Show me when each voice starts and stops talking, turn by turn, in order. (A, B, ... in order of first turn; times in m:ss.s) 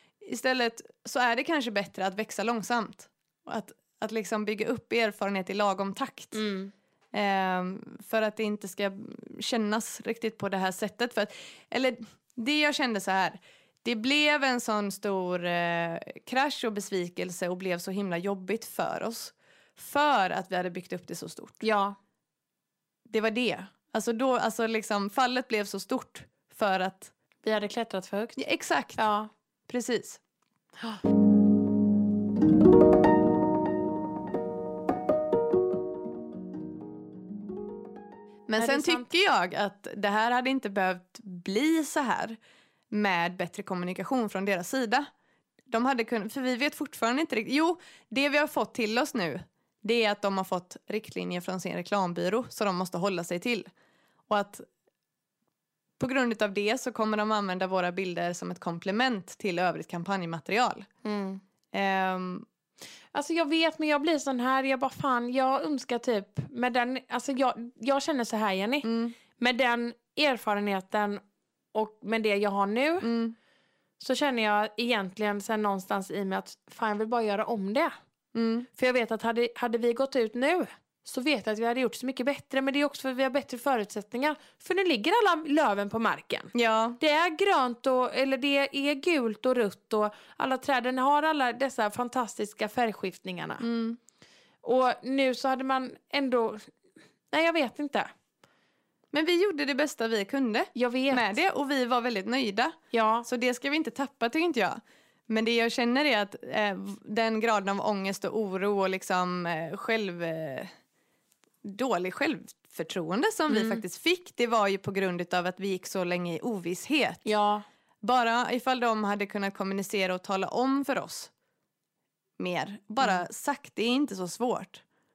0:00.2-0:06.4 A
0:06.3-0:06.7 B
0:07.1-0:21.6 A
0:21.6-0:22.0 B
0:23.1-0:27.1 A
0:27.4-0:28.4 B
0:28.4-0:29.0 A
0:29.0-0:29.3 B
0:29.7-0:30.2 A
0:38.5-0:42.4 A
0:38.6-0:39.1 B
0:42.9-0:45.1 A
0:45.7-0:53.7 A
0:54.3-0:54.6 A
0:56.0-1:00.9 A
1:01.0-1:01.4 B
1:01.7-1:02.4 A
1:03.1-1:11.2 B
1:08.8-1:09.1 A
1:11.7-1:13.1 B
1:13.0-1:13.3 A
1:14.0-1:17.9 B
1:18.3-1:18.7 A
1:18.7-1:33.6 B
1:26.5-1:27.0 A
1:33.6-1:34.0 A
1:34.6-1:36.6 B
1:37.3-1:38.1 B
1:39.1-1:50.7 A
1:40.7-1:41.4 B
1:42.9-1:43.3 B
1:51.6-1:57.2 A
1:53.5-1:53.8 B
1:57.2-1:57.6 B
1:58.0-2:01.3 A
2:02.4-2:04.8 A